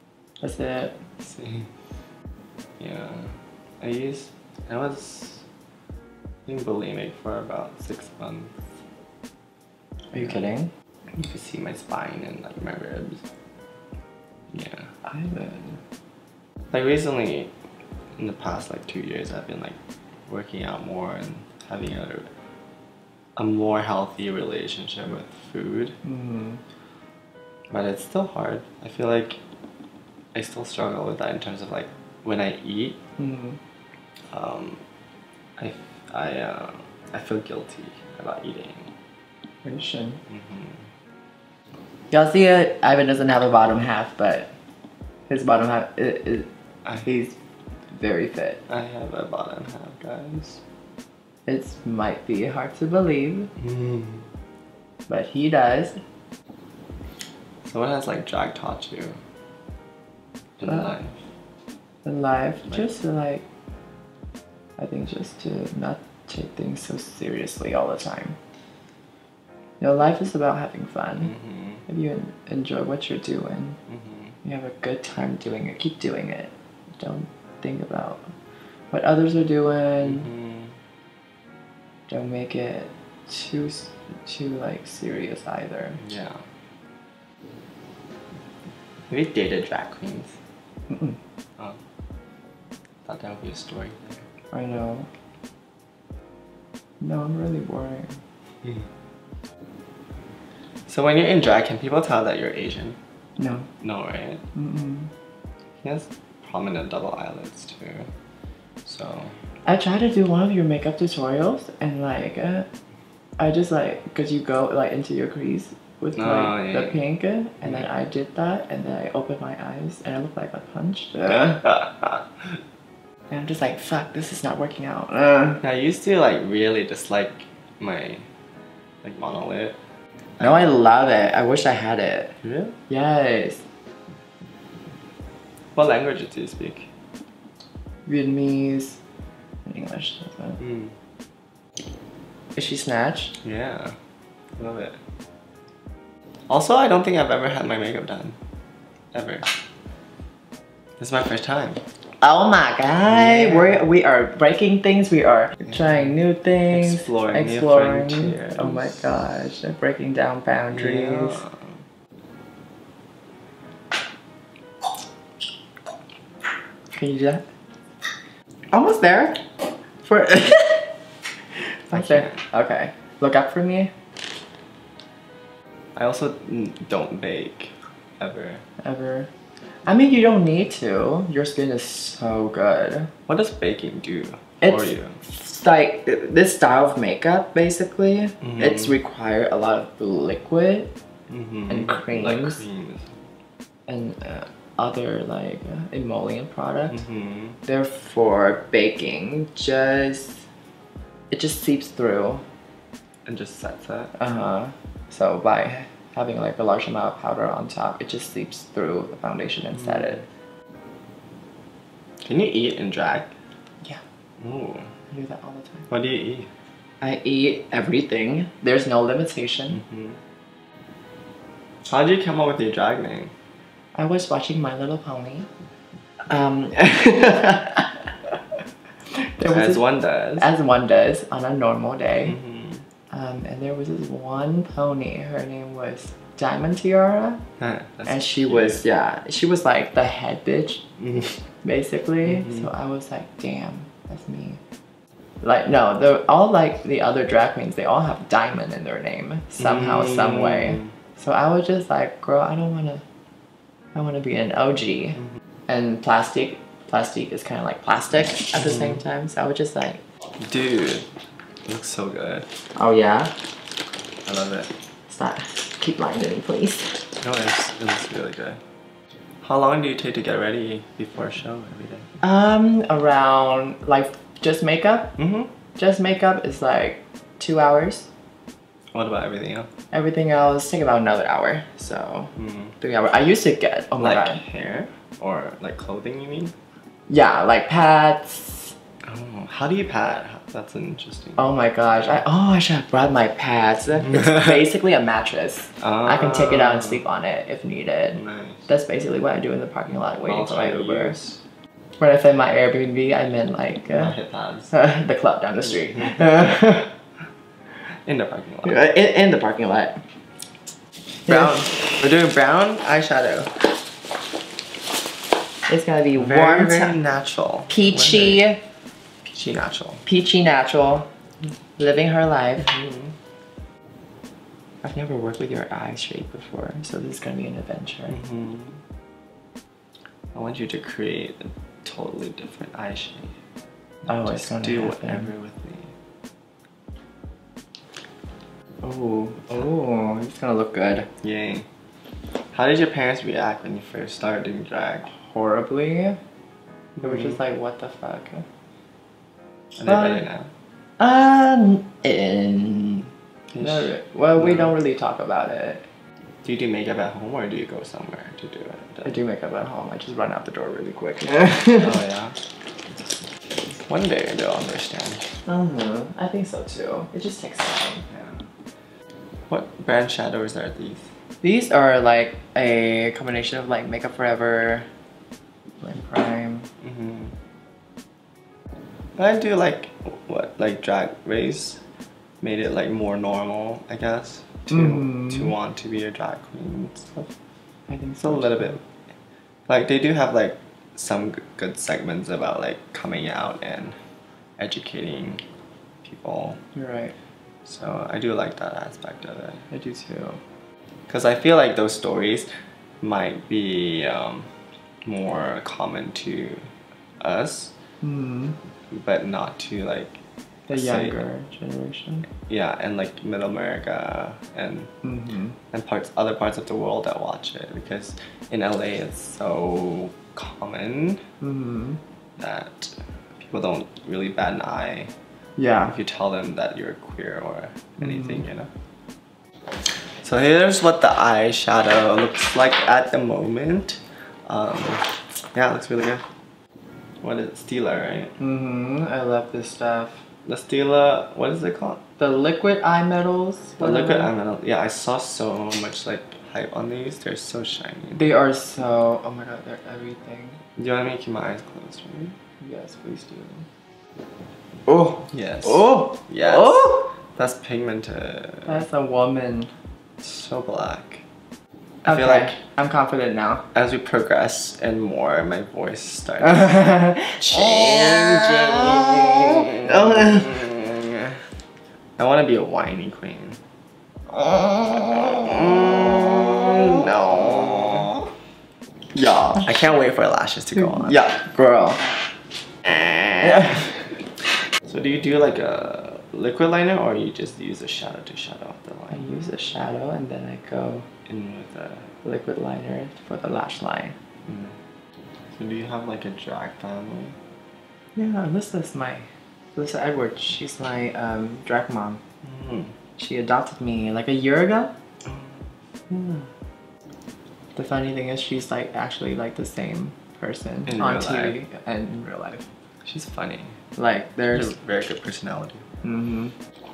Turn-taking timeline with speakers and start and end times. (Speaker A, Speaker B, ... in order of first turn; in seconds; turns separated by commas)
Speaker A: 0.4-1.0, Speaker B: 1.2-1.7, Speaker B: 2.8-5.4, Speaker B: 6.5-8.5, Speaker A: 10.1-10.7, Speaker B: 11.1-13.2, Speaker B: 14.5-14.9, Speaker A: 15.0-15.8, Speaker B: 16.7-17.5, Speaker B: 18.2-19.8, Speaker B: 20.3-22.3, Speaker B: 23.4-25.9, Speaker A: 26.0-26.6, Speaker B: 27.7-29.4, Speaker B: 30.3-33.0, Speaker A: 33.2-33.6, Speaker B: 34.3-34.8, Speaker B: 35.6-38.9, Speaker A: 39.6-40.2, Speaker B: 40.3-40.8, Speaker A: 42.1-44.5, Speaker A: 45.3-46.5, Speaker A: 47.0-47.4, Speaker A: 47.9-48.6, Speaker B: 48.7-50.6, Speaker A: 51.5-53.5, Speaker B: 53.6-54.2, Speaker A: 55.1-56.0, Speaker B: 57.6-59.2, Speaker B: 60.6-61.2, Speaker A: 60.6-60.9, Speaker A: 62.0-63.4, Speaker A: 64.8-68.4, Speaker A: 69.8-71.3, Speaker B: 71.2-71.8, Speaker A: 71.9-73.8, Speaker B: 73.9-74.3, Speaker A: 74.4-78.3, Speaker A: 78.9-80.3, Speaker B: 80.0-80.7, Speaker A: 82.1-86.0, Speaker B: 86.0-86.4, Speaker B: 89.1-90.3, Speaker A: 90.9-91.2, Speaker B: 93.0-94.2, Speaker A: 94.5-95.1, Speaker A: 97.0-98.2, Speaker B: 100.9-103.0, Speaker A: 103.4-103.7, Speaker B: 103.8-104.4, Speaker A: 104.5-105.1, Speaker B: 105.8-108.1, Speaker B: 108.8-109.3, Speaker A: 109.6-112.7, Speaker A: 113.4-121.6, Speaker B: 116.2-117.0, Speaker B: 117.6-117.9, Speaker B: 121.2-122.2, Speaker A: 123.3-125.6, Speaker B: 125.6-128.2, Speaker B: 129.0-129.8, Speaker A: 130.4-132.3, Speaker B: 132.4-132.7, Speaker A: 132.9-133.6, Speaker B: 135.7-136.9, Speaker A: 138.1-139.0, Speaker A: 139.6-140.6, Speaker B: 140.6-140.9, Speaker A: 142.5-143.3, Speaker B: 143.4-143.9, Speaker B: 144.6-145.0, Speaker B: 146.5-148.3, Speaker B: 149.1-149.5, Speaker B: 151.0-151.8, Speaker A: 152.2-161.4, Speaker B: 153.1-153.8, Speaker B: 156.7-159.3, Speaker B: 160.7-161.8, Speaker A: 166.9-167.4, Speaker A: 168.7-169.4, Speaker A: 170.0-170.9, Speaker A: 171.9-173.9, Speaker B: 171.9-172.4, Speaker B: 175.9-178.6, Speaker A: 178.8-179.3, Speaker A: 179.8-183.1, Speaker B: 183.3-185.2, Speaker A: 184.6-190.9, Speaker B: 188.4-188.9, Speaker B: 191.3-193.1, Speaker A: 191.7-192.6, Speaker A: 193.9-197.0, Speaker B: 196.9-197.6, Speaker A: 197.6-200.4, Speaker A: 201.3-202.4, Speaker B: 203.2-204.2, Speaker A: 204.2-210.2, Speaker B: 209.8-210.1, Speaker B: 212.2-213.3, Speaker B: 214.4-214.9, Speaker A: 215.1-215.9, Speaker B: 215.9-216.5, Speaker A: 217.0-219.8, Speaker B: 219.8-220.2, Speaker B: 221.8-223.3, Speaker A: 223.9-225.5, Speaker A: 226.3-228.0, Speaker A: 229.1-229.8, Speaker B: 229.4-230.5, Speaker A: 230.4-232.4, Speaker B: 232.1-232.8, Speaker A: 233.1-237.4, Speaker B: 237.6-238.8, Speaker A: 238.1-240.8, Speaker B: 241.0-241.4, Speaker A: 241.6-244.6, Speaker B: 242.2-242.6, Speaker A: 245.4-253.0, Speaker B: 249.6-250.9, Speaker A: 253.9-260.0, Speaker B: 258.6-258.9, Speaker B: 260.4-261.1, Speaker B: 261.6-262.4, Speaker A: 262.7-263.3, Speaker B: 264.2-264.7, Speaker A: 265.1-267.0, Speaker B: 267.2-268.6, Speaker B: 269.4-272.1, Speaker A: 272.2-275.1, Speaker B: 275.2-275.5, Speaker A: 275.8-278.1, Speaker B: 278.9-279.7, Speaker A: 279.9-284.4, Speaker B: 282.4-282.7, Speaker B: 284.0-286.5, Speaker A: 287.1-288.7, Speaker B: 289.0-291.5, Speaker A: 291.4-301.1, Speaker B: 295.8-297.0, Speaker B: 298.1-298.7, Speaker B: 300.2-301.4, Speaker A: 302.0-304.1, Speaker B: 303.9-304.7, Speaker A: 304.7-306.9, Speaker B: 305.9-306.6, Speaker B: 308.0-308.8, Speaker A: 308.6-310.0, Speaker B: 311.2-313.7, Speaker A: 311.3-311.9, Speaker A: 315.7-317.0, Speaker B: 316.1-318.4, Speaker A: 317.7-318.6, Speaker B: 319.2-320.0, Speaker A: 320.1-321.1, Speaker A: 321.8-322.7, Speaker B: 322.6-323.1, Speaker A: 324.8-328.1, Speaker B: 328.1-328.8, Speaker B: 330.3-333.3, Speaker B: 334.0-335.9, Speaker A: 334.1-335.3, Speaker A: 338.8-341.1, Speaker B: 341.2-341.6, Speaker B: 342.5-345.1, Speaker A: 345.1-346.2, Speaker B: 347.0-347.3, Speaker A: 347.0-348.4, Speaker B: 349.8-350.5, Speaker A: 349.8-350.2, Speaker A: 351.0-353.1, Speaker B: 353.5-354.7, Speaker A: 353.6-355.8, Speaker B: 356.4-359.1, Speaker A: 359.0-362.0, Speaker B: 361.7-362.4, Speaker B: 363.8-365.3, Speaker A: 365.4-368.0, Speaker B: 368.1-368.4, Speaker B: 369.5-371.1, Speaker A: 371.4-374.9, Speaker A: 375.8-376.7, Speaker B: 376.8-377.3, Speaker B: 379.1-381.8, Speaker B: 382.4-387.3, Speaker A: 385.0-385.3, Speaker A: 387.9-388.8, Speaker B: 388.2-388.8, Speaker B: 389.7-394.0, Speaker B: 394.6-395.4, Speaker B: 396.0-396.6, Speaker A: 396.7-397.1, Speaker B: 397.6-399.6, Speaker A: 399.7-400.4, Speaker B: 401.1-402.5, Speaker B: 403.0-404.5, Speaker B: 405.0-406.6, Speaker B: 407.2-407.7, Speaker A: 408.0-408.6, Speaker B: 408.9-411.2, Speaker A: 410.7-412.3, Speaker B: 412.4-414.9, Speaker A: 415.0-415.6, Speaker B: 415.7-421.2, Speaker A: 421.4-422.0, Speaker B: 422.4-425.1, Speaker A: 425.6-426.0, Speaker B: 425.8-428.7, Speaker A: 428.0-428.4, Speaker B: 430.2-436.2, Speaker B: 437.2-438.3, Speaker A: 438.4-440.2, Speaker B: 440.4-442.0, Speaker A: 442.2-444.3, Speaker B: 443.8-448.2, Speaker A: 448.1-450.6, Speaker B: 450.8-452.3, Speaker A: 452.6-453.6, Speaker A: 454.9-456.1, Speaker B: 455.3-458.8, Speaker A: 458.6-459.7, Speaker B: 460.2-461.2, Speaker B: 462.0-462.6, Speaker A: 462.1-463.6, Speaker B: 463.7-471.4, Speaker A: 466.6-470.6, Speaker B: 472.2-473.6, Speaker A: 474.5-475.2, Speaker B: 475.1-478.2, Speaker A: 479.1-479.7, Speaker B: 479.5-481.2, Speaker A: 480.8-482.1, Speaker B: 482.8-483.8, Speaker B: 484.9-489.3, Speaker A: 489.1-491.1, Speaker B: 491.2-492.1, Speaker A: 492.2-494.1, Speaker B: 494.4-494.7, Speaker B: 495.5-497.4, Speaker A: 498.1-502.2, Speaker B: 502.4-502.9, Speaker A: 503.2-504.9, Speaker B: 505.2-506.4, Speaker A: 507.7-512.6, Speaker B: 510.9-511.6, Speaker B: 513.0-513.8, Speaker A: 514.0-514.7, Speaker B: 514.5-515.8, Speaker A: 516.0-516.5